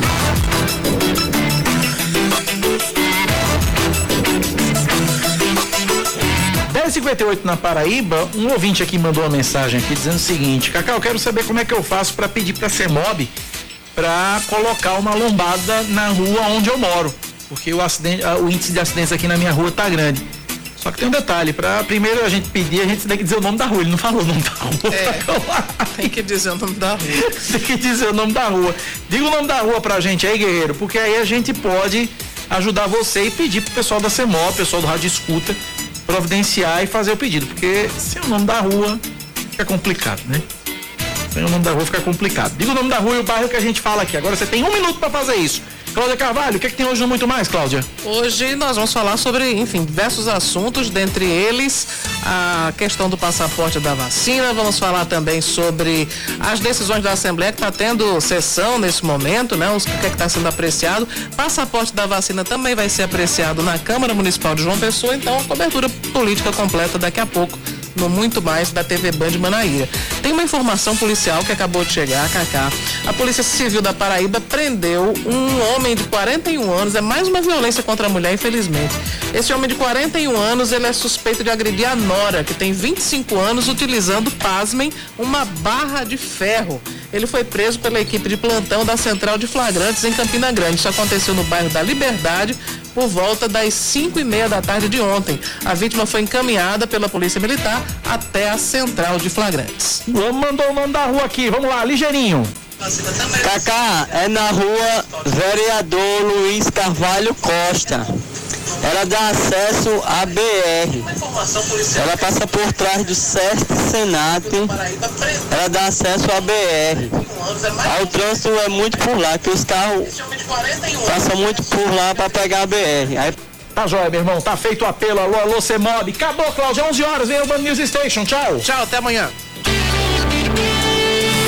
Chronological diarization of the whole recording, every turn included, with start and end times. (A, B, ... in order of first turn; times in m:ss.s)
0:06.7-0:13.3 A
0:14.0-0:20.2 A
0:20.8-0:26.1 A
0:24.9-0:25.3 B
0:26.0-0:27.2 B
0:27.1-0:39.0 A
0:39.5-0:40.4 A
0:41.3-0:47.9 A
0:48.0-1:40.0 B
1:40.1-1:42.5 A
1:43.4-1:48.1 C
1:48.8-1:51.1 C
1:51.3-1:51.9 B
1:51.9-1:54.8 C
1:54.9-1:55.3 B
1:55.5-1:57.1 C
1:57.5-1:57.8 B
1:57.8-2:00.1 C
2:00.4-2:01.0 B
2:01.0-2:03.4 C
2:03.8-2:08.7 A
2:08.6-2:09.3 B